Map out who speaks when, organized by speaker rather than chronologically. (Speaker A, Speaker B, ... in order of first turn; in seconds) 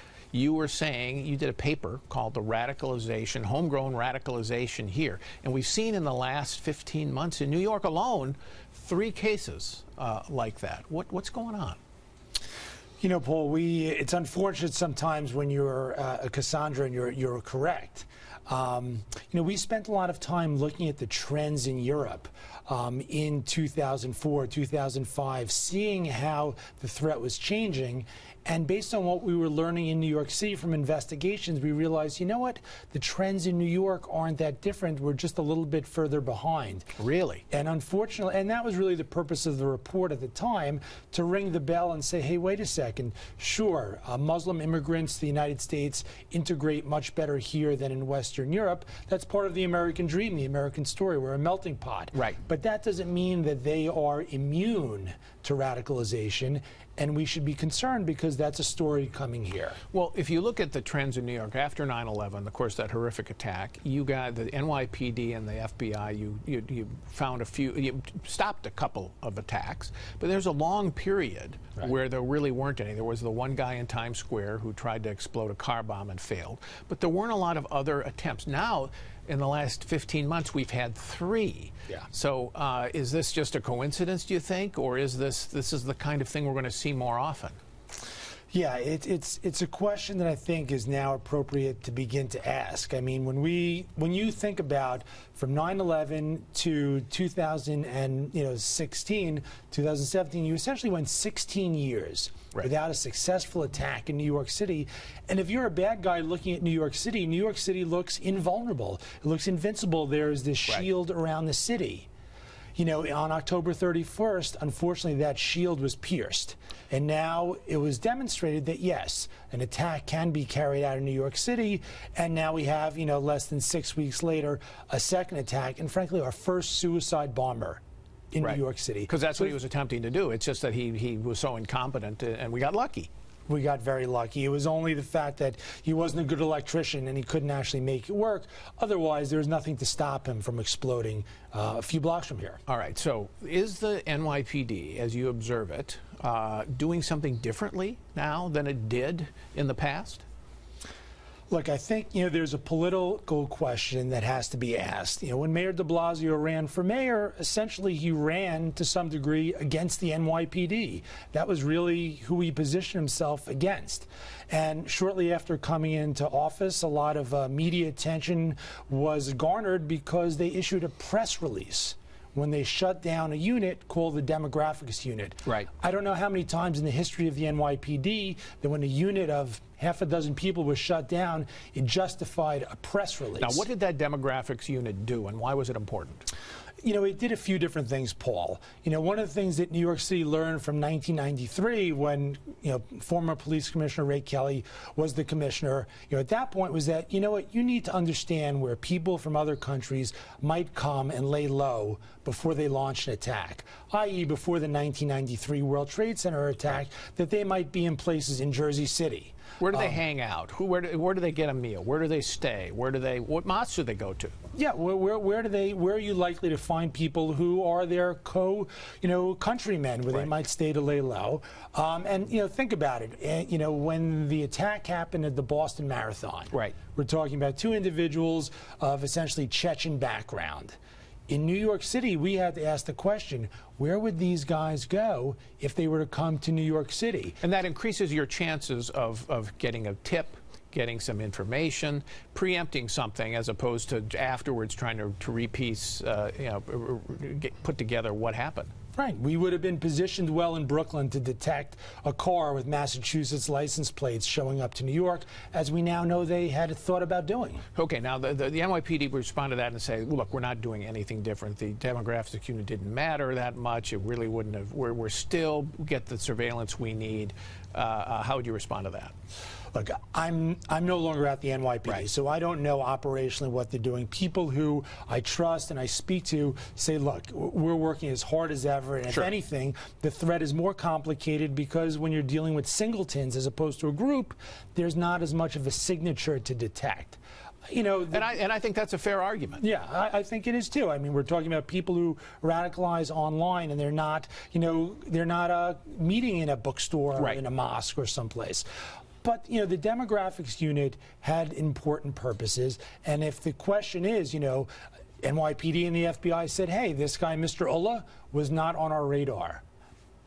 Speaker A: 0.3-11.8, 37.0-37.4, 59.9-87.6, 128.4-133.1, 142.7-150.2, 183.4-186.2, 209.6-214.3, 237.4-248.7, 257.8-269.1, 288.1-289.6
Speaker B: 13.0-36.9, 37.5-59.8, 88.5-112.1, 112.8-127.8, 128.3-129.5, 133.5-142.6, 151.5-183.7, 186.8-210.0, 214.6-230.8, 231.3-237.4, 248.9-257.6, 269.7-288.3, 289.6-298.6, 299.2-304.7, 305.2-309.6